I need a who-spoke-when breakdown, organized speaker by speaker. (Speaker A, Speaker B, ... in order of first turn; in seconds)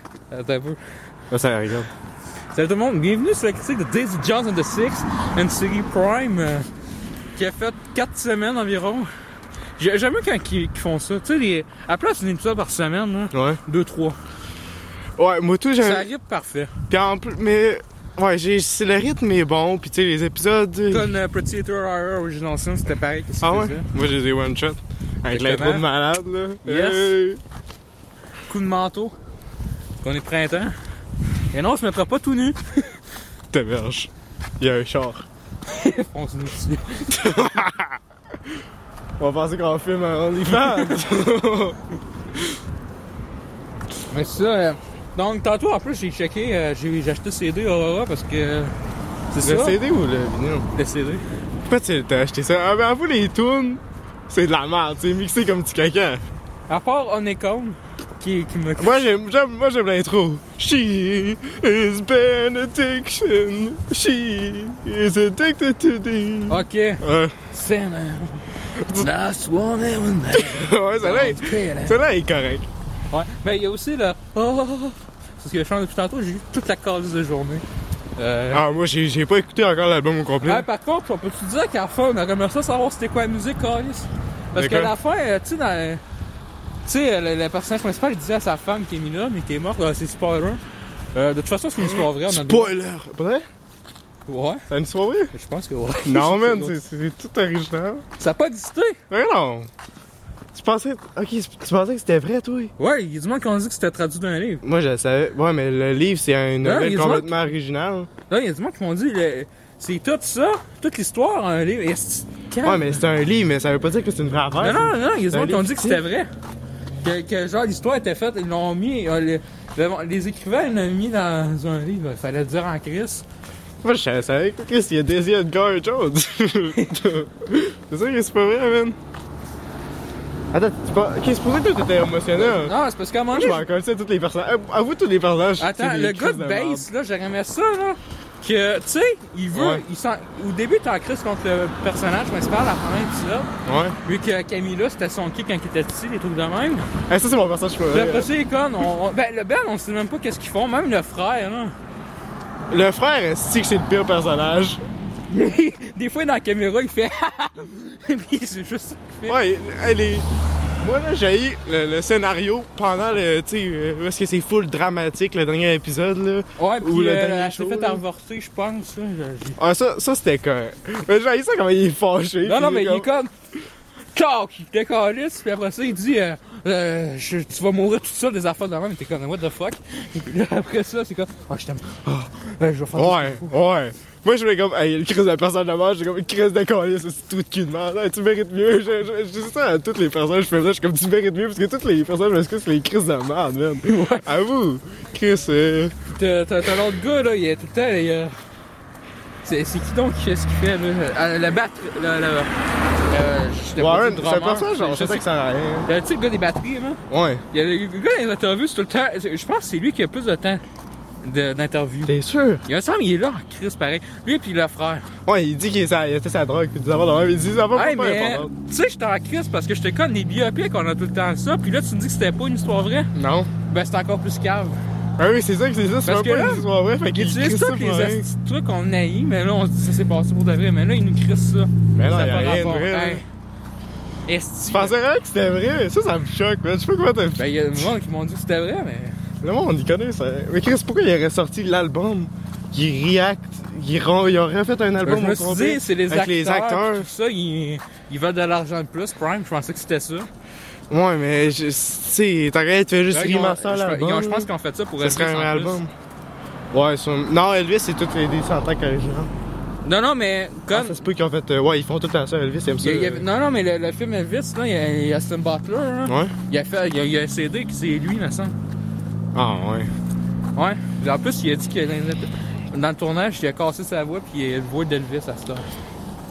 Speaker A: 0.3-0.8, 2.5-6.7, 7.3-9.1, 9.8-14.2, 15.8-16.7, 20.9-23.9, 25.3-25.9, 26.6-27.1, 28.5-29.1, 30.0-30.7, 31.5-32.8, 35.7-37.3, 40.6-41.0, 44.1-48.7, 49.3-49.8, 50.7-51.2, 56.7-59.1, 66.5-72.0, 73.1-77.6, 78.2-78.6, 80.4-86.0, 86.8-90.6, 91.1-92.7, 94.3-94.6, 95.3-96.7, 98.2-99.0, 102.8-104.6, 106.6-107.3, 108.3-113.0, 114.6-116.3, 117.0-123.2, 126.7-127.0, 132.3-133.6, 135.6-143.5, 144.0-146.9, 147.9-151.7, 155.3-159.4, 166.6-169.6, 172.4-173.3, 174.1-183.5, 193.9-194.2, 196.1-198.3, 199.4-202.5, 203.1-205.2, 205.8-207.0, 207.5-210.6, 211.2-215.1, 217.7-223.1, 223.7-224.8, 226.0-233.2, 234.2-234.9, 237.4-239.1, 245.0-250.3, 253.1-255.8, 259.8-261.0, 262.8-268.5, 270.5-275.7
Speaker B: 1.3-1.9, 13.3-13.6, 15.2-16.1, 16.9-21.1, 23.4-27.4, 33.5-34.1, 34.6-35.2, 37.1-38.0, 39.2-41.8, 49.4-50.6, 51.7-56.2, 58.8-67.3, 68.8-69.1, 70.3-72.7, 78.5-80.7, 84.5-84.9, 91.8-93.4, 94.7-95.3, 96.0-98.0, 99.1-99.7, 100.5-102.7, 104.6-108.1, 112.6-116.0, 123.8-129.0, 130.5-132.7, 133.3-136.9, 139.5-139.8, 143.6-143.9, 147.1-148.3, 152.7-154.8, 159.3-160.3, 160.8-168.0, 169.6-173.1, 182.9-195.9, 203.8-205.9, 207.1-207.4, 212.1-212.6, 215.2-218.5, 223.1-223.5, 225.2-228.2, 231.9-233.2, 234.7-237.9, 239.4-247.1, 250.9-255.9, 256.7-259.3, 260.7-263.2, 266.1-266.3, 269.3-269.9